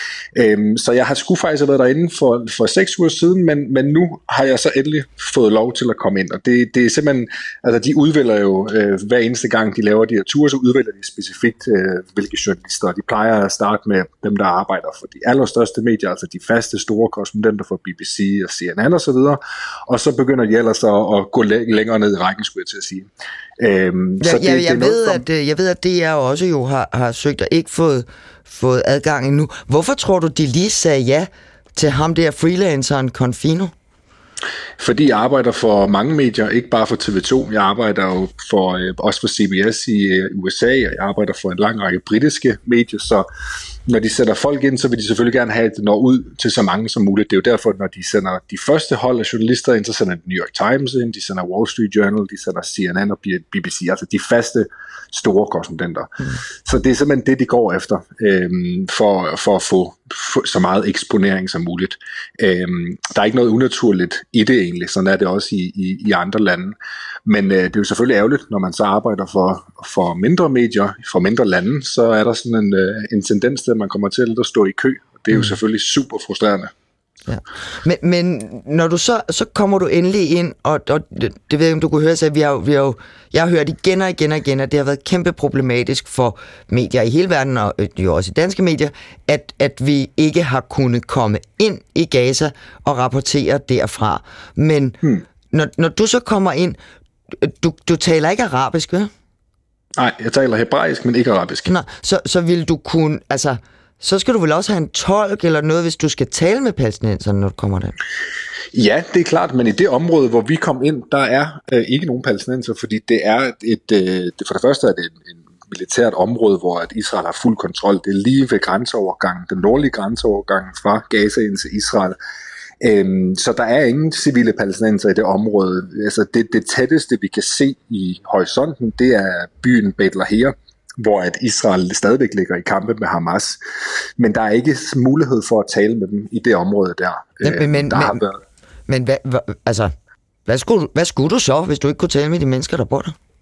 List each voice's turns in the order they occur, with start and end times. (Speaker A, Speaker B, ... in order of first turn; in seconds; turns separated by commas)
Speaker A: 0.3-25.2, Speaker B: 24.2-33.7, Speaker A: 34.8-43.2, Speaker A: 43.9-76.7, Speaker B: 77.3-95.0, Speaker B: 95.5-96.8, Speaker B: 97.3-99.1, Speaker A: 100.0-101.8, Speaker B: 101.6-108.0, Speaker A: 108.7-122.2, Speaker A: 122.8-133.6, Speaker A: 134.2-138.4, Speaker B: 137.4-138.2, Speaker B: 138.9-139.9, Speaker B: 140.4-143.1